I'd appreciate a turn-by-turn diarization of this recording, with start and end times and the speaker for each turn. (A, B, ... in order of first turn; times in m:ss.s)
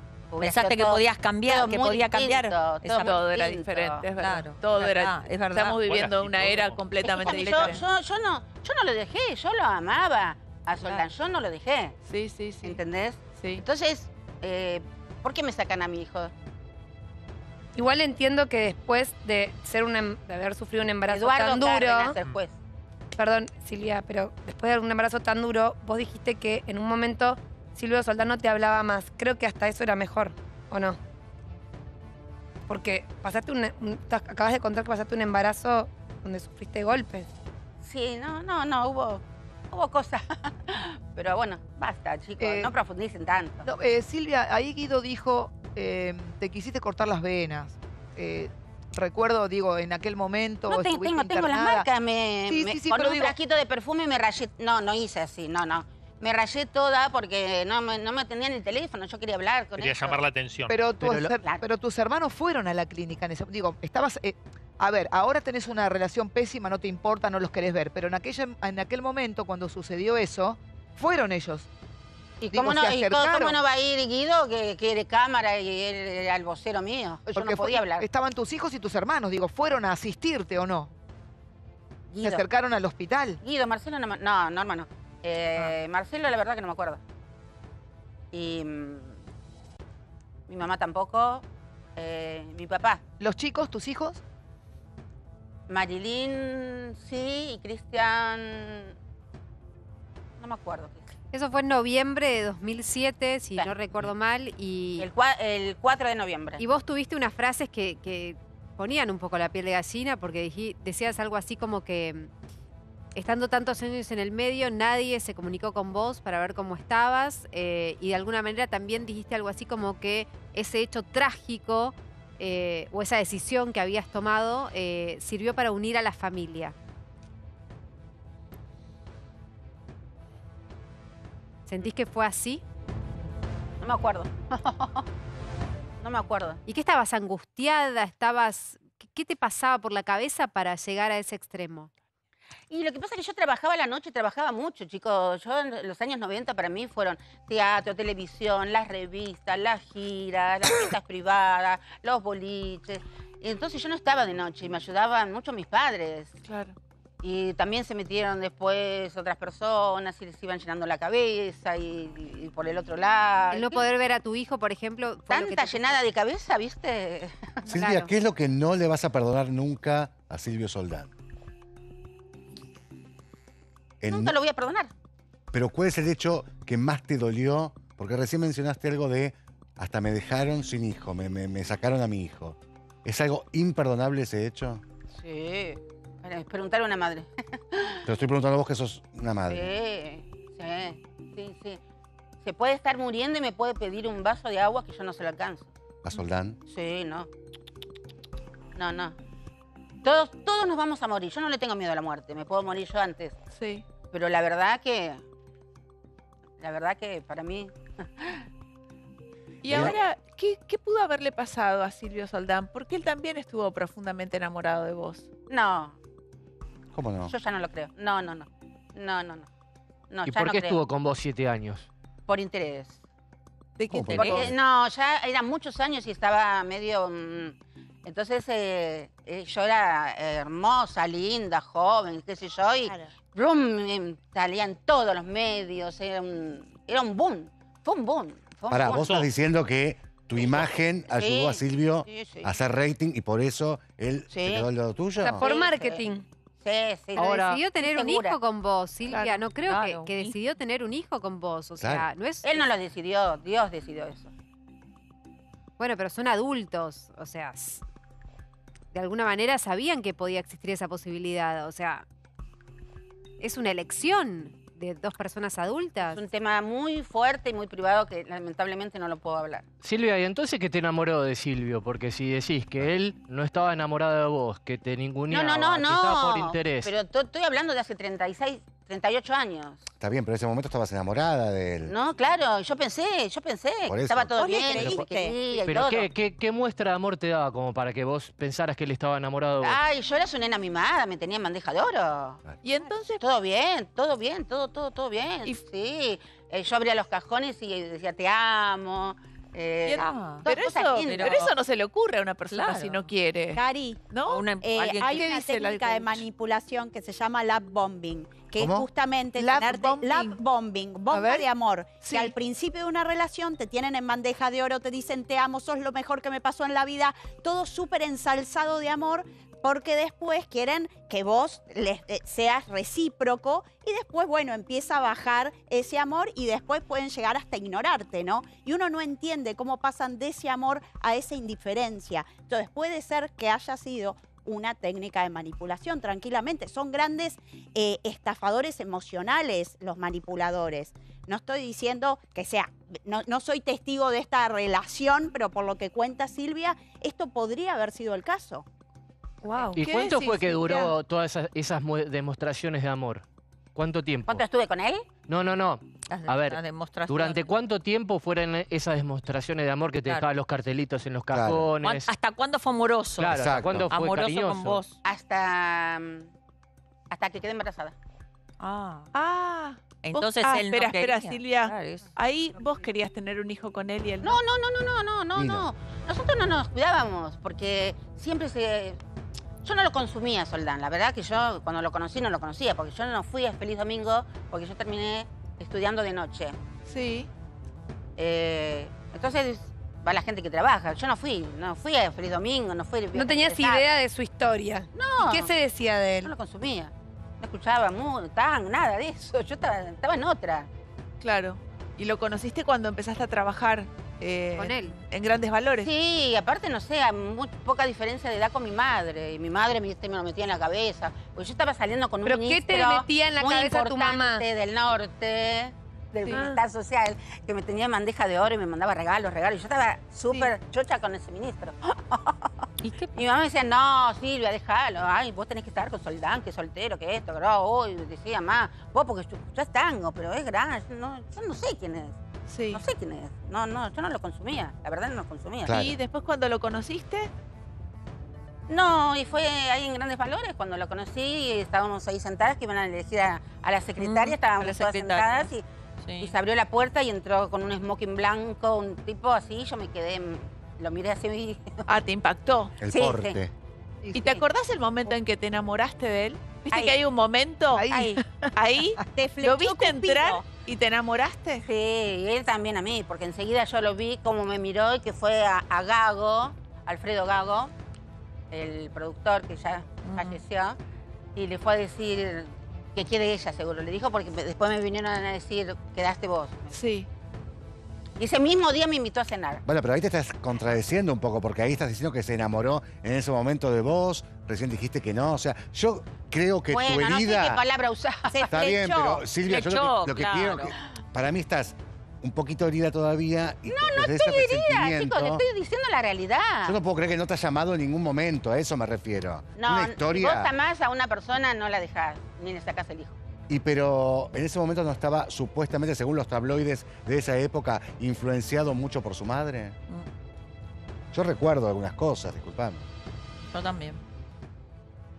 0:00.3-0:04.0 A
0:00.4-0:03.2 B
0:02.9-0:07.8 C
0:04.2-0:05.8 B
0:05.8-0:06.9 D
0:07.0-0:12.0 A
0:12.1-0:12.8 C
0:12.6-0:16.3 A
0:13.4-0:13.6 C
0:17.8-0:22.2 E
0:21.1-0:22.5 A
0:23.2-0:31.0 E
0:32.7-0:37.3 E
0:37.8-0:43.6 A
0:42.4-0:42.7 F
0:43.6-0:51.9 F
0:50.7-1:00.2 A
0:52.5-0:53.4 F
0:59.8-1:00.8 D
1:00.7-1:11.7 F
1:01.0-1:01.6 A
1:12.4-1:18.1 A
1:12.5-1:13.6 F
1:17.3-1:20.9 F
1:22.1-1:22.4 A
1:22.2-1:23.4 F
1:23.4-1:27.0 A
1:28.3-1:29.2 A
1:30.5-1:31.4 A
1:32.0-1:33.0 A
1:33.2-1:34.2 F
1:35.7-1:38.9 A
1:40.4-1:41.1 A
1:41.3-1:45.1 G
1:45.0-1:46.6 A
1:46.6-1:52.3 G
1:53.2-2:06.8 G
2:11.7-2:12.6 G
2:13.8-2:15.0 A
2:16.0-2:16.6 A
2:16.7-2:21.9 G
2:22.7-2:36.3 A
2:36.5-2:36.8 C
2:37.2-2:43.8 A
2:43.5-2:46.0 G
2:45.3-2:47.7 A
2:47.7-2:51.1 H
2:47.7-2:48.1 G
2:54.0-2:54.4 H
2:54.1-2:54.9 A
2:55.5-3:04.8 H
3:05.1-3:08.0 A
3:08.1-3:09.7 H
3:09.5-3:11.8 A
3:12.4-3:15.7 A
3:16.0-3:16.6 H
3:16.7-3:17.3 A
3:18.8-3:19.2 A
3:20.0-3:23.4 A
3:23.5-3:23.8 C
3:24.1-3:25.2 A
3:26.6-3:28.4 A
3:29.6-3:35.2 C
3:29.7-3:30.0 H
3:29.7-3:30.0 A
3:35.5-3:36.0 A
3:36.9-3:37.3 H
3:37.2-3:39.5 A
3:40.1-3:40.8 A
3:40.3-3:41.9 I
3:42.3-3:43.0 A
3:43.8-3:44.4 C
3:43.9-3:44.6 H
3:44.1-3:59.3 A
3:58.7-4:05.4 H
4:00.4-4:02.6 A
4:04.3-4:04.7 A
4:05.2-4:06.2 E
4:05.4-4:06.1 A
4:06.6-4:08.4 A
4:07.2-4:12.6 G
4:07.2-4:07.6 I
4:09.6-4:10.3 B
4:11.8-4:12.1 H
4:12.4-4:14.3 A
4:15.8-4:17.8 G
4:18.9-4:22.0 G
4:23.4-4:26.2 G
4:26.1-4:29.7 A
4:29.8-4:36.9 I
4:35.3-4:39.8 A
4:40.0-4:41.9 H
4:41.8-4:46.1 A
4:43.9-4:44.4 H
4:44.4-4:45.4 J
4:44.8-4:49.8 I
4:49.6-4:52.4 A
4:52.6-4:53.2 C
4:53.2-5:01.5 A
4:59.9-5:06.2 C
4:59.9-5:00.5 B
5:01.0-5:01.5 B
5:02.5-5:03.1 B
5:03.6-5:04.1 J
5:04.3-5:05.4 B
5:04.6-5:48.6 J
5:08.6-5:08.9 H
5:09.4-5:10.4 C
5:12.0-5:12.3 C
5:49.4-5:49.9 E
5:49.6-5:50.9 C
5:49.7-5:53.2 I
5:53.8-5:54.4 I
5:54.3-5:55.1 A
5:55.3-6:02.1 I
5:56.1-5:57.5 B
6:01.3-6:01.7 H
6:01.8-6:05.0 B
6:03.2-6:04.8 I
6:03.3-6:03.9 H
6:05.0-6:06.3 A
6:07.1-6:08.0 A
6:08.6-6:09.1 B
6:09.1-6:14.4 C
6:10.0-6:12.1 B
6:14.2-6:19.0 A
6:15.4-6:15.7 H
6:19.6-6:26.6 A
6:26.9-6:27.3 C
6:28.2-6:33.8 A
6:33.1-6:36.3 E
6:34.9-6:35.5 A
6:36.2-6:40.7 A
6:41.2-6:45.9 C
6:44.6-6:44.9 G
6:45.8-7:02.5 A
6:52.2-6:54.4 E
6:56.3-6:56.6 E
7:02.8-7:03.3 B
7:03.2-7:12.2 A
7:12.5-7:12.8 C
7:12.7-7:15.8 A
7:15.6-7:16.0 H
7:15.7-7:17.3 C
7:18.7-7:25.6 A
7:24.0-7:26.3 B
7:26.2-7:31.8 A
7:31.9-7:32.7 C
7:32.8-7:33.5 H
7:32.9-7:33.4 A
7:34.0-7:34.3 F
7:34.2-7:37.9 C
7:36.7-7:37.0 A
7:37.8-7:38.5 F
7:37.9-7:38.2 A
7:38.6-7:41.6 C
7:39.2-7:40.4 J
7:41.6-7:47.7 A
7:48.5-7:50.8 A
7:50.0-7:50.4 B
7:51.4-7:56.8 A
7:56.7-7:57.1 C
7:58.2-7:59.6 A
7:59.7-8:07.6 H
8:06.7-8:08.5 A
8:08.3-8:09.3 J
8:08.5-8:15.4 H
8:09.5-8:10.7 B
8:13.7-8:16.8 A
8:16.7-8:20.5 H
8:19.6-8:23.2 A
8:23.5-8:29.8 H
8:31.1-8:32.9 H
8:33.5-8:34.0 B